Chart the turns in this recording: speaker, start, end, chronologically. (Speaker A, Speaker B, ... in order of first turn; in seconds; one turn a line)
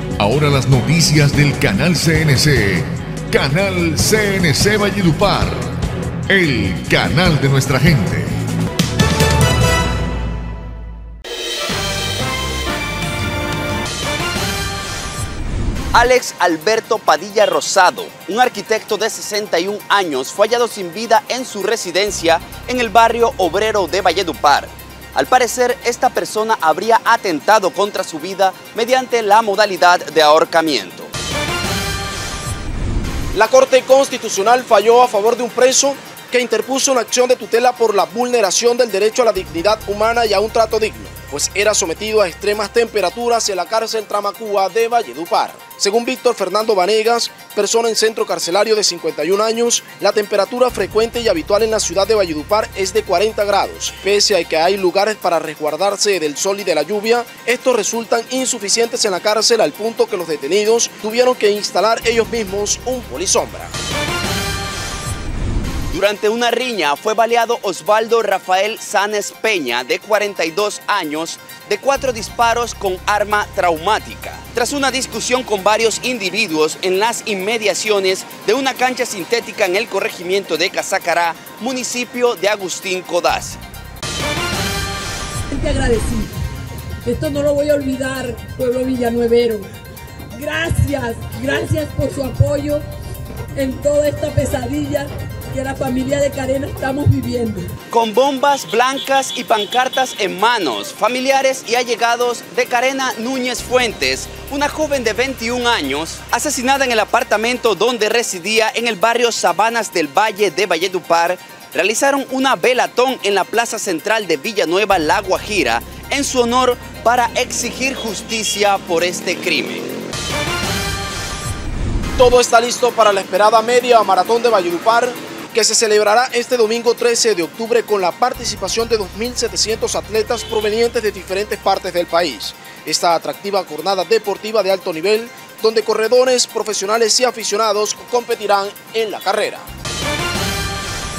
Speaker A: 0.2-5.7
Speaker A: 6.3-8.4
Speaker B: 15.9-31.1
Speaker C: 33.3-63.7
Speaker B: 65.9-83.6
Speaker D: 85.5-86.3
Speaker D: 87.0-89.7
Speaker D: 90.3-92.8
Speaker D: 93.6-97.7
Speaker B: 97.9-119.9
Speaker C: 122.2-139.7